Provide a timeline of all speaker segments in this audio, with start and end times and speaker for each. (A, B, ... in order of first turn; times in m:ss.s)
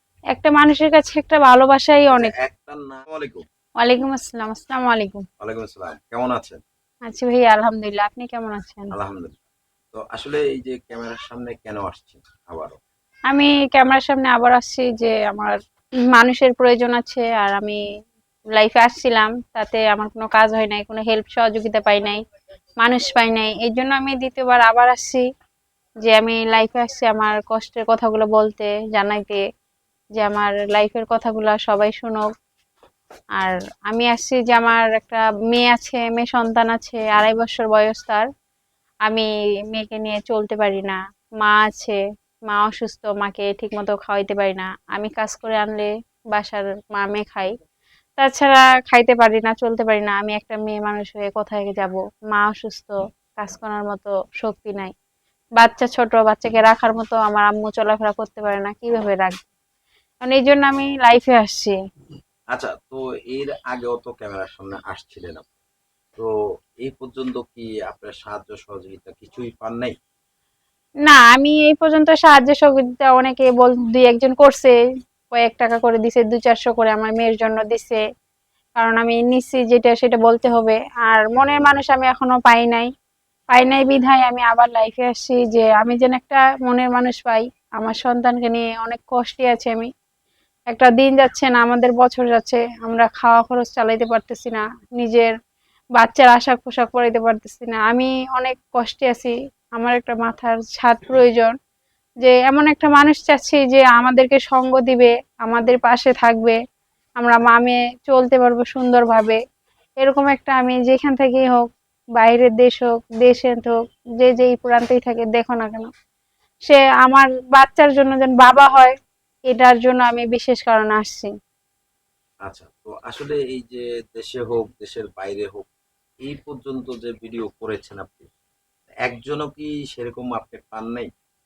0:00.3-0:02.3 A
0:02.1-0:03.4 B
0:03.8-0:05.2 A
0:05.4-0:06.6 B
0:07.1-0:08.9 A
0:08.9-0:09.4 B
0:09.9-0:12.8 B
0:13.3-0:15.6 A
0:16.1-0:17.8 A
0:18.5-0:22.2 A
0:22.8-0:25.2 A
0:26.0-0:29.4 A
0:30.2-0:32.3 A
0:33.4-0:38.2 A
0:39.1-0:47.5 A
0:48.2-0:54.9 A
0:55.6-0:59.5 A
1:00.2-1:01.8 A
1:02.5-1:05.5 B
1:06.8-1:10.0 B
1:11.0-1:14.8 A
1:15.3-1:18.0 A
1:18.8-1:22.9 A
1:23.5-1:29.9 A
1:30.7-1:35.3 A
1:36.0-1:41.5 A
1:42.2-1:46.6 A
1:47.2-1:49.4 A
1:50.0-1:51.7 A
1:52.2-1:55.9 A
1:56.7-1:58.9 A
1:59.5-2:01.3 A
2:02.4-2:05.7 B
2:06.3-2:08.3 B
2:09.1-2:11.1 B